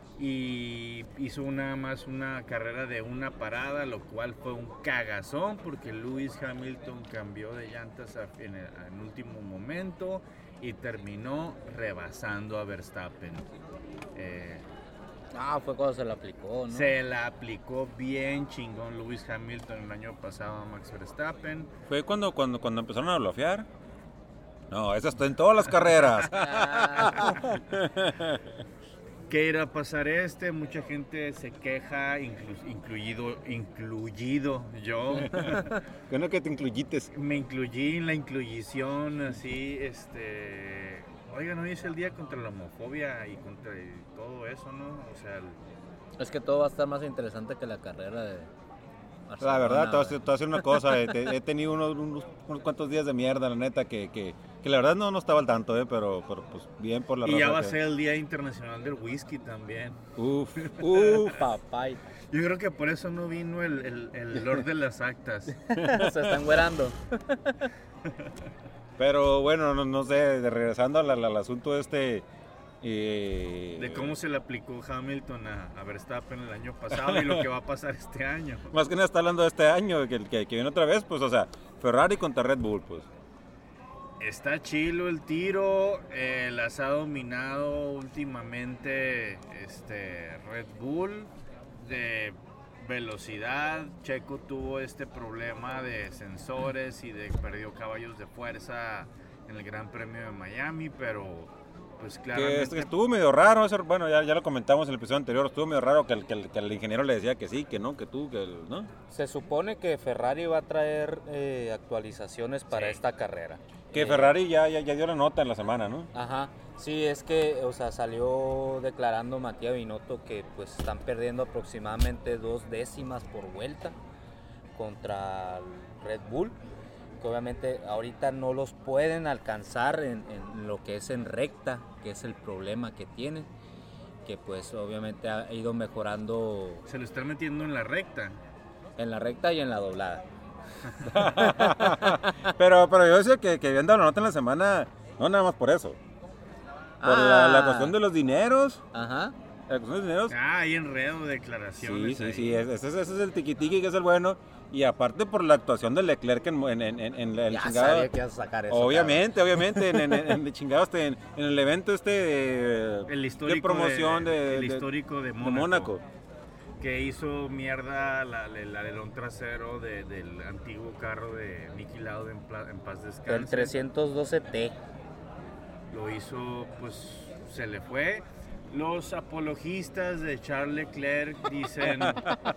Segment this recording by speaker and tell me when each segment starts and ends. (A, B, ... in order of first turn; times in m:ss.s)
0:00.2-0:13.5 A
0:14.1-0:14.6 A
0:15.3-0:16.9 B
0:16.7-0:21.7 A
0:21.9-0:23.7 C
0:24.7-0:28.5 C
0:26.3-0:27.3 B
0:27.2-0:27.5 A
0:29.3-0:35.7 A
0:35.2-0:37.1 C
0:37.1-0:45.6 A
0:46.2-0:48.5 B
0:49.3-0:51.0 B
0:49.4-0:57.8 C
0:57.2-1:00.0 A
1:00.2-1:01.4 C
1:00.6-1:01.4 A
1:01.3-1:02.0 B
1:02.3-1:05.6 A
1:05.6-1:07.7 B
1:05.7-1:06.4 C
1:09.0-1:12.2 C
1:12.8-1:14.1 C
1:13.8-1:18.7 A
1:16.9-1:17.5 C
1:18.7-1:23.1 C
1:24.2-1:42.9 A
1:42.3-1:48.9 C
1:49.1-1:54.3 B
1:52.7-1:53.0 A
1:53.9-1:56.1 C
1:56.1-2:04.0 B
2:04.7-2:06.6 B
2:07.2-2:13.5 B
2:14.2-2:16.8 B
2:16.8-2:18.4 A
2:19.0-2:20.2 B
2:21.0-2:26.0 C
2:21.2-2:22.5 B
2:27.0-2:27.9 B
2:27.0-2:28.8 C
2:28.9-2:29.3 B
2:29.7-2:30.3 C
2:30.3-2:32.6 A
2:31.8-2:38.1 C
2:37.5-2:40.4 B
2:38.7-2:44.9 C
2:43.1-2:46.0 A
2:45.4-2:46.0 C
2:46.8-2:53.8 A
2:53.3-2:54.8 B
2:55.9-3:02.3 A
3:02.0-3:02.3 C